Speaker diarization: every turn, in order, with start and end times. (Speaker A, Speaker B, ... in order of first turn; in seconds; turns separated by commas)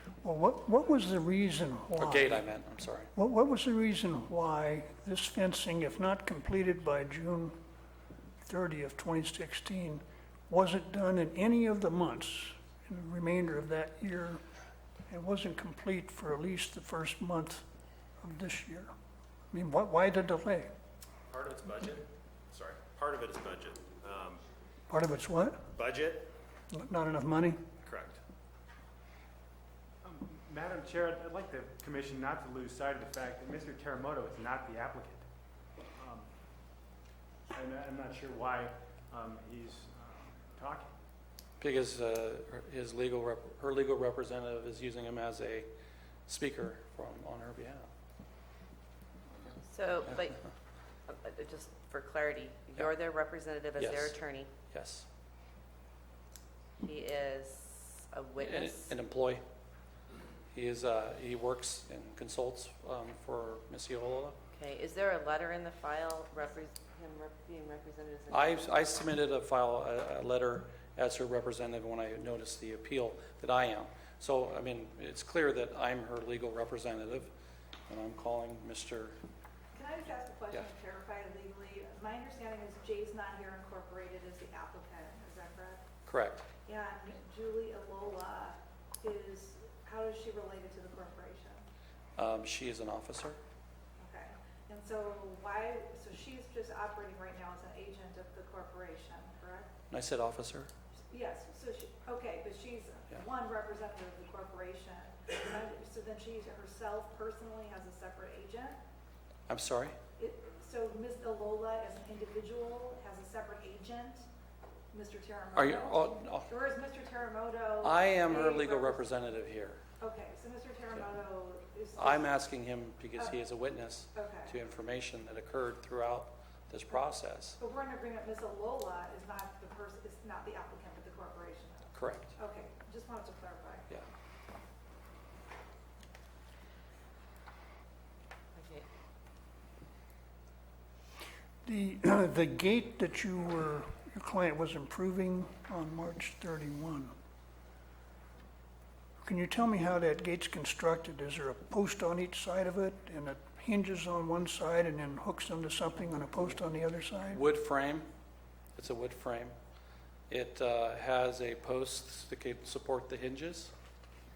Speaker A: 0.2-2.4, Speaker B: 2.0-3.1, Speaker A: 3.2-7.5, Speaker A: 8.4-14.4, Speaker A: 15.1-17.6, Speaker A: 18.2-18.9, Speaker A: 19.5-20.7, Speaker C: 21.3-24.4, Speaker A: 24.9-25.6, Speaker C: 25.7-26.3, Speaker A: 26.7-27.6, Speaker C: 27.8-28.2, Speaker D: 30.0-35.3, Speaker D: 36.0-36.3, Speaker D: 37.5-40.9, Speaker B: 41.6-45.7, Speaker B: 46.3-47.9, Speaker E: 49.7-50.4, Speaker E: 51.1-54.5, Speaker B: 53.8-55.1, Speaker E: 56.8-59.0, Speaker B: 58.4-59.4, Speaker B: 60.5-64.4, Speaker E: 64.5-68.7, Speaker B: 68.3-77.3, Speaker B: 77.9-79.2, Speaker F: 79.7-85.9, Speaker B: 86.1-86.5, Speaker F: 86.5-91.6, Speaker B: 92.2-93.4, Speaker F: 94.0-99.8, Speaker B: 99.9-100.7, Speaker F: 101.1-108.8, Speaker B: 109.5-110.0, Speaker F: 110.2-114.3, Speaker F: 114.9-119.1, Speaker B: 115.5-116.5, Speaker B: 117.8-119.8, Speaker F: 120.0-122.4, Speaker B: 122.0-127.6, Speaker F: 123.1-123.4, Speaker F: 124.1-124.6, Speaker F: 127.6-134.0, Speaker B: 131.9-132.3, Speaker E: 138.6-138.9, Speaker A: 141.7-147.1, Speaker A: 149.2-157.4, Speaker B: 157.3-158.1, Speaker B: 158.8-159.5, Speaker B: 160.3-163.7